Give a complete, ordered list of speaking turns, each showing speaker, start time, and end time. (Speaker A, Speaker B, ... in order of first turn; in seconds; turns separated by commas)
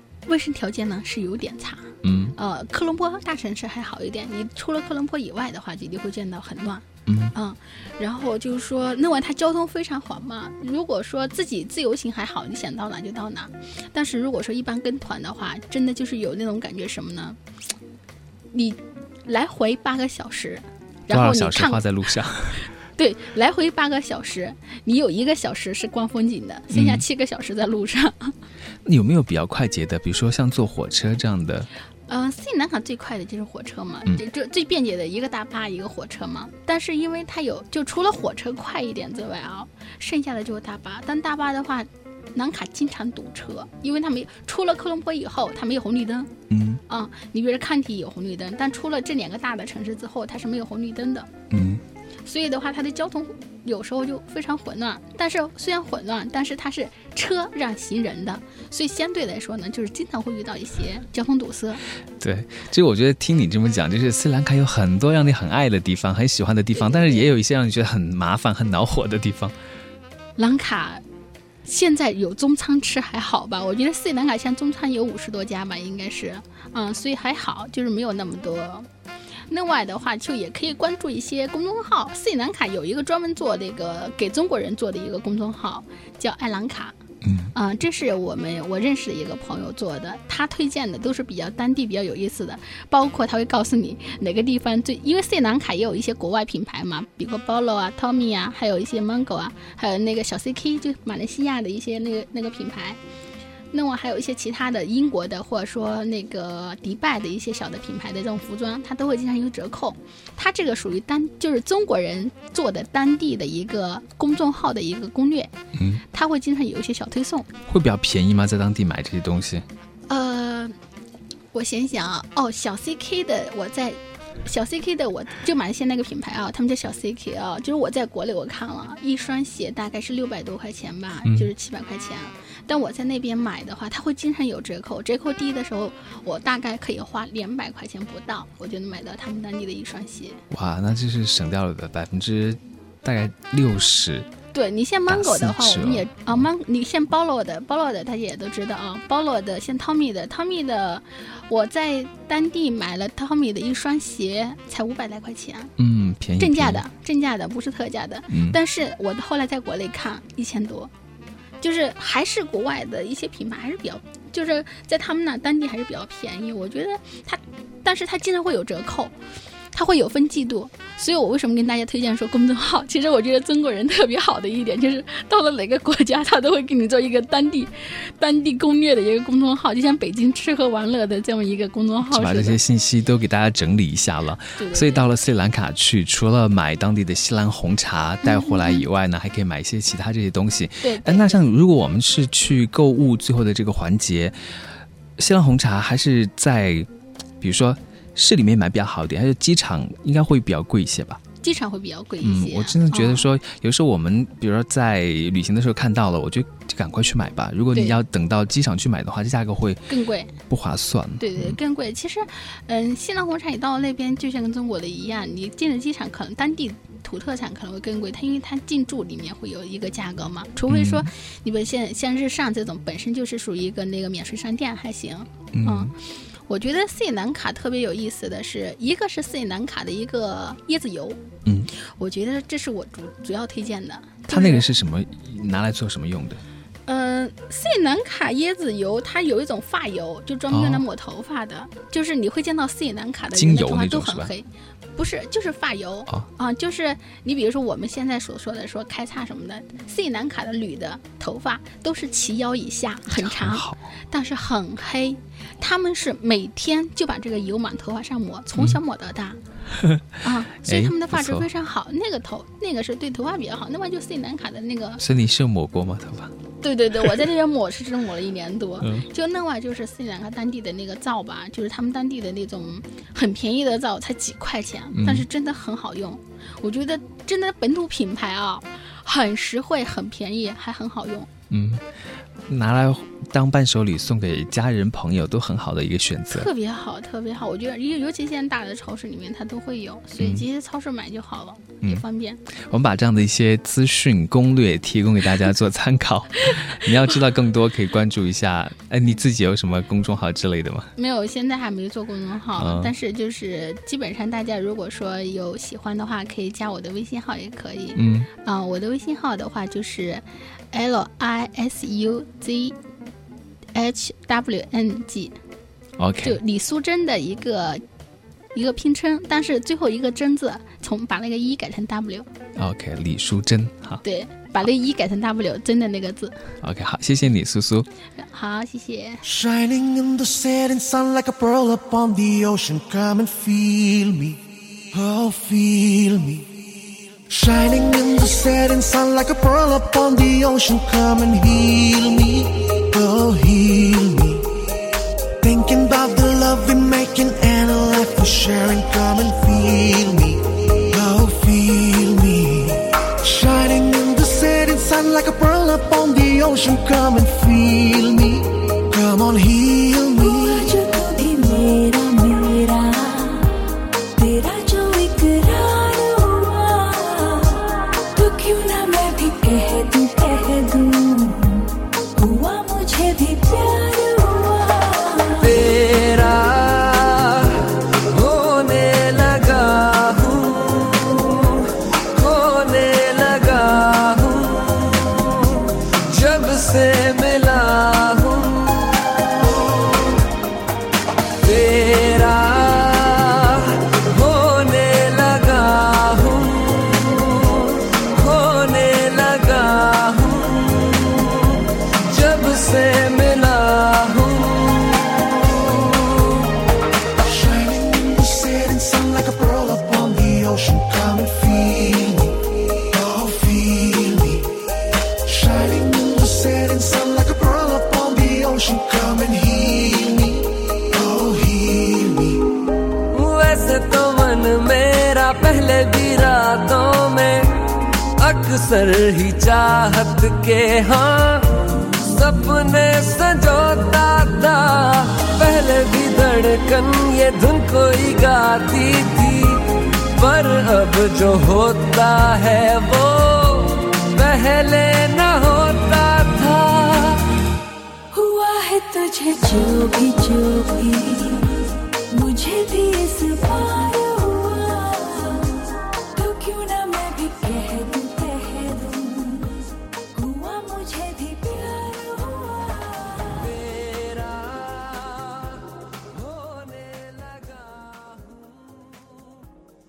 Speaker A: 0.3-17.4, Speaker B: 2.0-2.4, Speaker B: 7.1-7.3, Speaker A: 18.5-21.9, Speaker B: 21.1-22.6, Speaker A: 23.0-28.4, Speaker B: 26.7-27.0, Speaker B: 28.9-31.7, Speaker A: 32.1-46.3, Speaker B: 46.5-46.8, Speaker A: 46.9-51.3, Speaker B: 51.5-51.8, Speaker A: 52.3-61.8, Speaker B: 62.2-69.5, Speaker A: 66.7-67.3, Speaker A: 70.4-71.0, Speaker A: 71.6-78.9, Speaker A: 79.5-87.0, Speaker B: 87.2-87.5, Speaker A: 87.5-103.0, Speaker A: 103.7-115.5, Speaker B: 115.8-116.0, Speaker A: 116.1-117.5, Speaker B: 117.7-119.7, Speaker A: 120.1-120.8, Speaker A: 121.5-140.4, Speaker B: 131.2-131.5, Speaker B: 140.5-144.3, Speaker A: 144.5-155.7, Speaker B: 145.1-146.4, Speaker B: 155.8-156.8, Speaker A: 156.4-160.9, Speaker B: 158.3-158.6, Speaker A: 161.6-169.2, Speaker A: 169.7-182.6, Speaker B: 182.1-194.4, Speaker A: 184.6-185.1, Speaker A: 188.2-188.8, Speaker A: 190.8-191.4, Speaker B: 195.2-196.9, Speaker B: 197.4-201.2, Speaker A: 201.4-203.3, Speaker B: 202.2-209.9, Speaker A: 207.7-208.0, Speaker A: 209.9-210.4, Speaker B: 210.5-211.6, Speaker A: 211.2-225.9, Speaker B: 220.7-221.1, Speaker B: 225.5-225.9, Speaker A: 226.5-234.7, Speaker B: 234.3-236.4, Speaker A: 236.9-259.4, Speaker B: 240.5-240.8, Speaker B: 243.3-244.3, Speaker B: 253.1-253.8, Speaker B: 259.8-261.5, Speaker A: 260.2-265.0, Speaker B: 265.0-266.4, Speaker A: 266.6-281.3, Speaker B: 274.9-275.3, Speaker B: 281.5-281.9, Speaker B: 282.5-286.5, Speaker A: 286.3-292.4, Speaker B: 292.7-300.9, Speaker A: 301.0-312.8, Speaker B: 302.6-302.9, Speaker B: 307.9-308.3, Speaker A: 313.7-315.4, Speaker B: 316.0-316.4, Speaker A: 316.2-317.8, Speaker A: 318.5-322.3, Speaker B: 322.6-324.0, Speaker A: 324.0-326.5, Speaker B: 326.6-327.9, Speaker A: 328.2-329.2, Speaker C: 329.2-334.4, Speaker C: 334.9-336.5, Speaker C: 337.3-344.5, Speaker C: 345.4-360.8, Speaker D: 360.2-363.5, Speaker D: 364.1-375.6, Speaker E: 375.4-390.3, Speaker E: 391.4-406.6, Speaker C: 407.2-414.5, Speaker C: 415.2-422.4, Speaker E: 423.1-427.6, Speaker E: 428.2-447.3, Speaker D: 448.1-463.5, Speaker E: 463.4-469.0